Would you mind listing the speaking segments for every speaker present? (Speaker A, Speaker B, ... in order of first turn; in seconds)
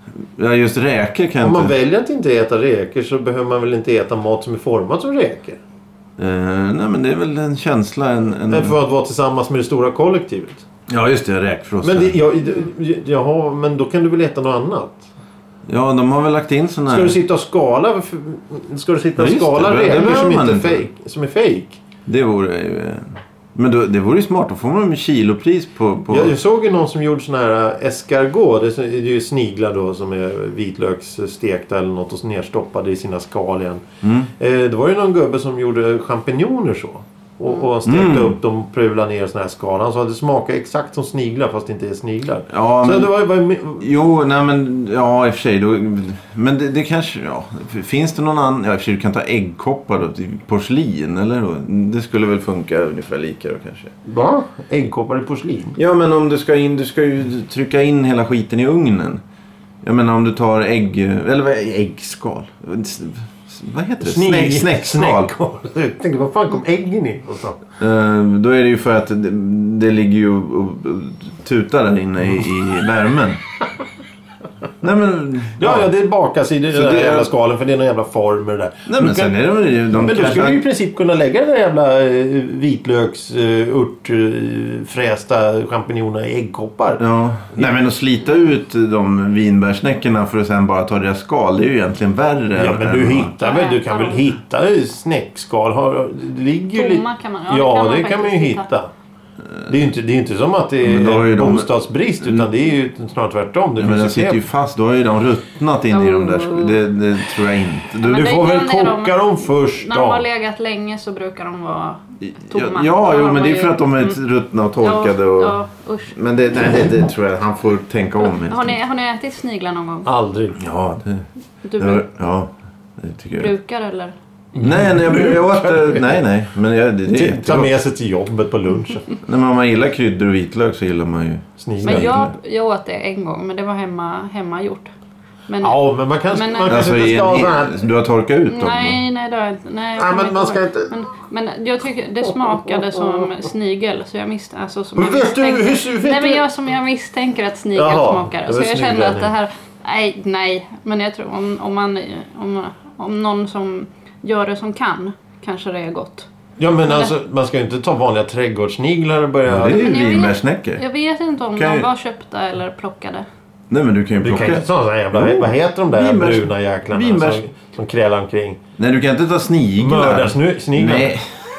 Speaker A: 0.4-1.7, 6.2-8.8, 10.9-12.2, 15.7-17.2, 19.2-20.9, 22.1-26.3, 34.0-34.3, 37.8-38.4, 42.5-43.1, 43.8-53.9, 55.8-59.2, 59.8-65.3, 67.8-73.4, 74.8-75.9, 76.7-77.3, 78.9-80.6, 87.0-93.3, 100.8-101.7, 102.2-102.5, 103.8-108.3, 112.2-115.6, 116.1-118.8, 120.6-121.3, 121.8-123.5, 124.6-127.7, 129.2-132.3, 136.7-139.0, 159.5-160.8, 161.6-161.9, 163.7-167.4, 168.8-171.4
Speaker B: 1.4-5.6, 8.5-10.7, 11.8-15.1, 16.9-21.8, 26.1-33.9, 34.4-43.9, 54.0-55.8, 64.0-67.6, 75.6-79.3, 79.9-87.0, 92.6-98.9, 99.7-104.4, 108.0-110.2, 120.0-120.6, 124.5-126.2, 127.1-129.1, 131.6-132.2, 135.6-137.8, 140.0-140.9, 145.0-146.4, 147.7-149.3, 156.6-159.9, 164.2-168.6, 169.8-171.2
Speaker C: 93.4-94.3, 96.8-98.7, 105.9-106.8, 108.0-114.2, 114.8-116.2, 118.2-120.1, 121.6-122.1, 123.4-124.2, 131.8-134.9, 135.5-136.8, 138.5-156.3, 159.7-163.3